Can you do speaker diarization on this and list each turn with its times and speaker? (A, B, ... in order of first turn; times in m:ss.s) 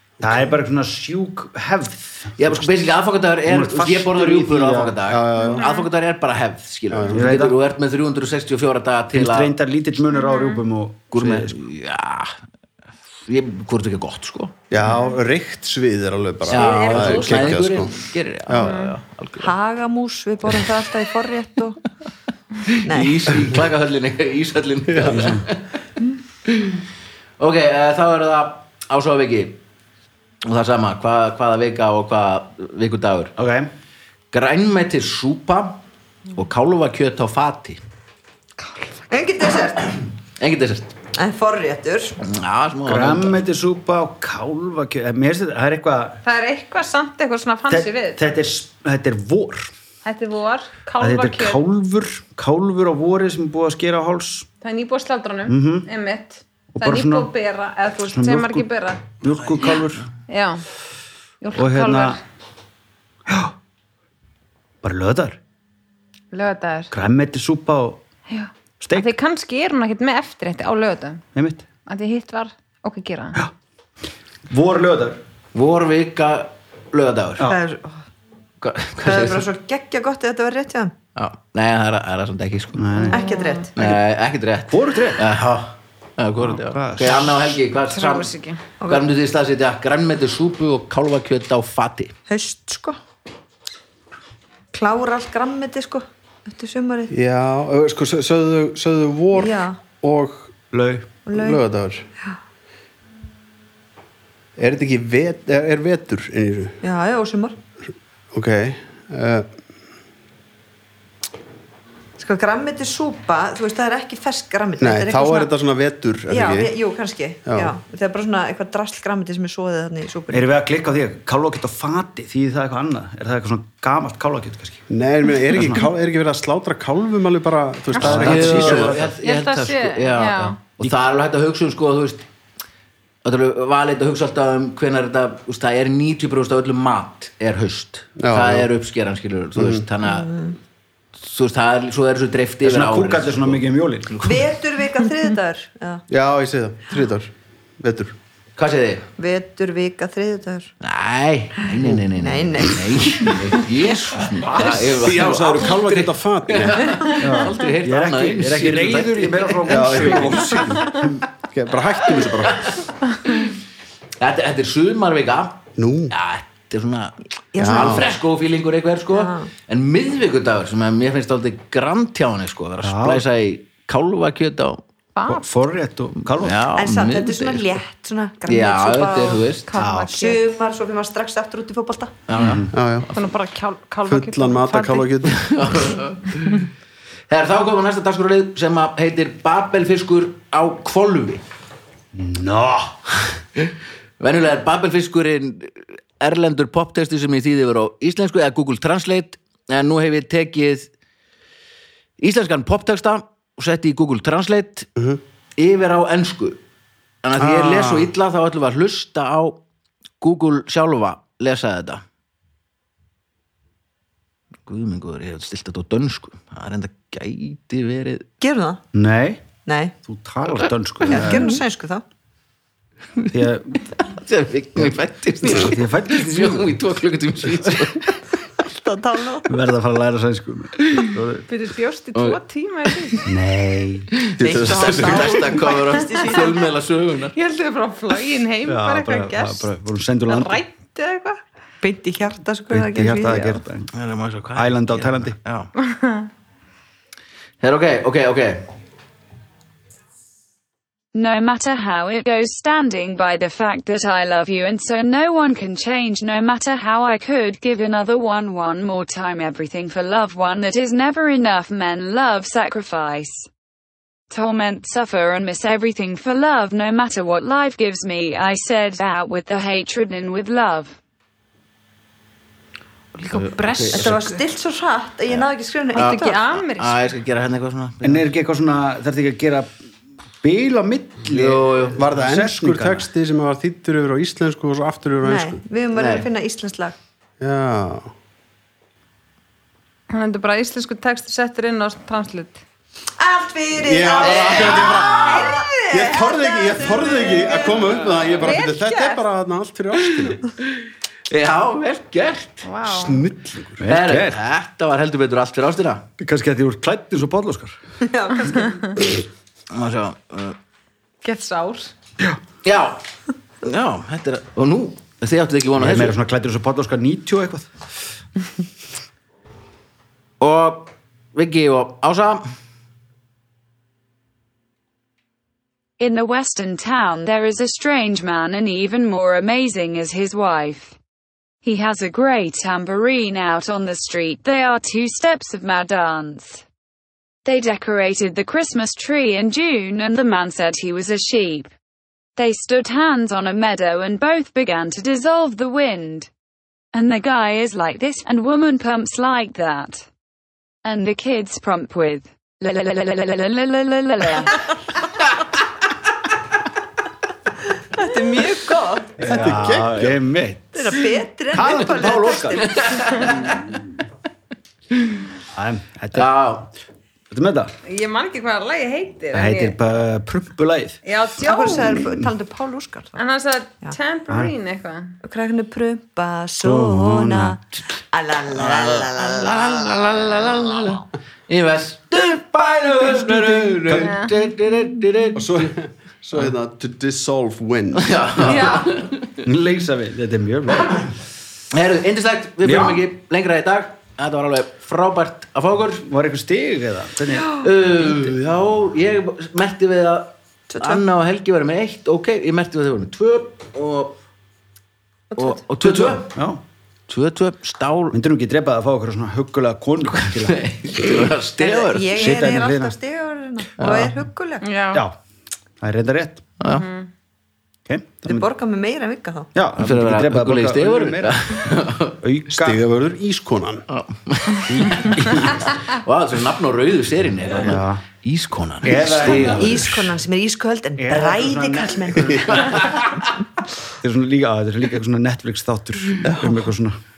0:00.2-0:02.9 A
0:00.2-0:00.5 B
0:02.4-0:09.5 C
0:03.4-0:05.0 A
0:05.1-0:05.7 B
0:05.6-0:05.8 D
0:06.9-0:07.2 B
0:07.1-0:07.6 A
0:09.1-0:11.6 A
0:10.1-0:10.6 D
0:11.1-0:12.4 C
0:13.3-0:14.6 C
0:14.7-0:18.0 B
0:16.5-0:19.5 C
0:16.5-0:17.7 D
0:18.5-0:18.8 B
0:18.6-0:18.9 D
0:19.4-0:21.8 E
0:22.6-0:25.7 C
0:22.8-0:23.5 E
0:24.9-0:25.3 B
0:25.1-0:25.4 A
0:26.5-0:26.8 C
0:27.4-0:29.6 C
0:30.4-0:33.3 C
0:33.4-0:33.7 A
0:34.3-0:35.8 C
0:36.3-0:37.8 C
0:39.1-0:40.0 E
0:40.4-0:40.9 C
0:41.2-0:42.2 E
0:42.2-0:43.4 C
0:42.8-0:46.2 A
0:46.2-0:48.2 D
0:47.7-0:49.7 A
0:50.0-0:51.6 D
0:51.0-0:54.5 A
0:54.6-0:59.0 D
0:55.5-0:55.9 A
0:56.7-0:57.3 A
0:58.0-0:58.7 A
0:59.2-1:00.1 A
0:59.6-1:00.6 D
1:01.4-1:02.2 D
1:01.5-1:02.2 A
1:03.3-1:03.6 A
1:04.8-1:05.4 A
1:06.3-1:06.9 D
1:06.9-1:08.0 A
1:08.3-1:11.2 D
1:08.8-1:09.1 A
1:11.4-1:11.6 A
1:11.9-1:13.4 D
1:14.5-1:15.2 A
1:15.5-1:17.5 C
1:17.4-1:18.0 E
1:18.6-1:19.5 C
1:19.0-1:20.9 E
1:21.2-1:23.0 C
1:22.7-1:23.3 A
1:23.1-1:23.7 D
1:23.1-1:23.7 E
1:23.8-1:28.3 C
1:24.7-1:25.3 A
1:26.5-1:27.3 A
1:27.9-1:28.6 D
1:28.8-1:29.1 E
1:28.8-1:32.1 C
1:32.3-1:33.0 E
1:34.7-1:37.1 E
1:37.1-1:40.6 B
1:39.4-1:39.8 E
1:40.7-1:41.1 A
1:41.3-1:41.6 E
1:41.3-1:42.1 B
1:44.6-1:46.8 B
1:46.8-1:47.6 E
1:48.3-1:49.5 B
1:52.2-1:55.5 E
1:54.8-1:56.7 B
1:56.3-2:00.4 E
1:57.5-1:57.7 B
2:00.3-2:04.9 A
2:04.9-2:09.0 B
2:05.5-2:05.9 A
2:08.0-2:08.2 D
2:08.0-2:09.1 A
2:08.0-2:12.3 C
2:09.2-2:10.6 D
2:13.2-2:20.3 C
2:18.2-2:18.7 B
2:19.6-2:19.8 B
2:20.0-2:20.6 E
2:21.2-2:24.5 C
2:22.6-2:24.1 A
2:24.2-2:26.0 E
2:26.1-2:28.1 B
2:28.6-2:29.1 C
2:29.2-2:30.7 E
2:30.8-2:40.6 C
2:32.2-2:33.4 E
2:34.4-2:35.2 A
2:34.9-2:37.1 B
2:37.2-2:41.0 A
2:39.7-2:42.7 B
2:42.4-2:43.5 C
2:44.2-2:54.8 C
2:45.8-2:46.1 B
2:47.5-2:48.1 E
2:47.6-2:48.1 B
2:49.1-2:49.5 E
2:52.8-2:53.2 A
2:55.2-2:55.4 D
2:55.3-2:56.6 A
2:56.4-2:57.8 C
2:56.8-2:59.5 E
2:58.5-2:59.7 C
2:59.7-3:00.4 D
2:59.8-3:00.1 A
3:00.1-3:02.2 E
3:02.3-3:03.0 C
3:02.4-3:02.7 A
3:02.7-3:03.1 B
3:03.2-3:05.1 D
3:04.1-3:05.5 B
3:05.3-3:06.7 C
3:07.3-3:11.4 C
3:12.1-3:13.0 A
3:13.6-3:20.9 C
3:22.2-3:24.9 C
3:25.6-3:26.6 C
3:27.2-3:29.6 C
3:27.4-3:28.1 B
3:30.2-3:32.0 C
3:34.7-3:38.3 C
3:38.4-3:38.8 E
3:38.9-3:39.4 A
3:39.6-3:40.0 E
3:40.0-3:41.6 A
3:41.0-3:42.0 E
3:43.3-3:43.8 A
3:43.8-3:48.1 C
3:44.8-3:46.8 A
3:47.4-3:47.9 A
3:48.6-3:49.5 E
3:49.5-3:51.5 A
3:51.5-3:53.3 D
3:53.3-3:54.1 A
3:54.2-3:57.4 C
3:54.4-3:55.4 B
3:54.4-3:56.7 E
3:57.4-3:59.7 D
3:58.6-4:00.6 A
4:00.3-4:01.4 D
4:01.8-4:03.6 E
4:02.7-4:03.9 A
4:03.9-4:05.7 C
4:04.5-4:05.4 A
4:05.8-4:06.3 D
4:07.6-4:08.7 C
4:11.1-4:23.5 F
4:24.3-4:31.0 F
4:33.2-4:34.4 D
4:33.3-4:34.2 C
4:33.9-4:36.4 E
4:35.9-4:37.1 D
4:35.9-4:38.3 C
4:38.0-4:39.7 A
4:40.4-4:43.1 A
4:41.3-4:42.0 C
4:42.0-4:45.6 B
4:45.2-4:47.0 E
4:46.0-4:46.3 C
4:47.4-4:48.1 B
4:50.1-4:52.6 D
4:53.2-4:58.0 E
4:53.8-5:00.5 B
4:54.2-4:55.5 C
4:58.4-4:59.2 D
5:01.3-5:02.7 C
5:02.6-5:03.2 D
5:02.8-5:03.8 B
5:03.8-5:04.4 A
5:03.9-5:06.1 C
5:06.2-5:07.8 A
5:08.0-5:09.2 E
5:09.7-5:10.6 C
5:11.2-5:11.9 D
5:12.6-5:13.0 C
5:13.6-5:16.2 C
5:15.8-5:17.7 A
5:20.4-5:22.4 C
5:26.0-5:31.0 F
5:31.6-5:36.6 F
5:37.4-5:41.7 F
5:42.4-5:46.3 F
5:46.9-5:50.1 F
5:50.8-5:54.6 F
5:57.9-5:59.4 E
5:59.2-6:03.6 A
5:59.4-6:00.2 B
6:00.8-6:02.8 E
6:01.7-6:03.8 C
6:05.5-6:06.3 A
6:06.1-6:06.7 C
6:07.3-6:07.7 A
6:07.8-6:09.8 D
6:09.3-6:11.0 A
6:11.0-6:12.0 D
6:11.4-6:13.2 E
6:12.0-6:12.2 A
6:13.2-6:15.2 D
6:15.2-6:20.0 E
6:16.6-6:17.6 A
6:18.5-6:25.7 C
6:22.2-6:24.3 A
6:24.0-6:24.3 D
6:25.4-6:28.8 B
6:28.0-6:29.4 C
6:29.4-6:31.1 A
6:31.7-6:36.0 C
6:32.6-6:33.1 A
6:36.0-6:37.6 A
6:37.6-6:44.2 C
6:40.7-6:41.0 E
6:45.3-6:45.6 E
6:45.4-6:46.4 C
6:45.8-6:46.6 A
6:47.1-6:48.2 C
6:48.1-6:50.6 A
6:50.1-6:52.4 C
6:51.6-6:54.7 E
6:52.1-6:53.0 A
6:53.8-6:54.1 C
6:54.6-6:55.0 D
6:54.9-6:55.2 A
6:55.8-6:56.4 A
6:56.6-6:56.9 C
6:56.7-6:57.1 D
6:57.9-6:58.5 A
6:58.2-6:59.5 E
6:59.5-7:01.6 A
6:59.8-7:02.2 C
7:02.2-7:02.8 A
7:02.5-7:03.9 B
7:03.9-7:10.1 C
7:04.7-7:05.6 A
7:07.6-7:08.0 A
7:08.8-7:10.0 A
7:09.3-7:13.0 E
7:11.0-7:12.9 A
7:14.0-7:17.0 A
7:16.2-7:16.6 B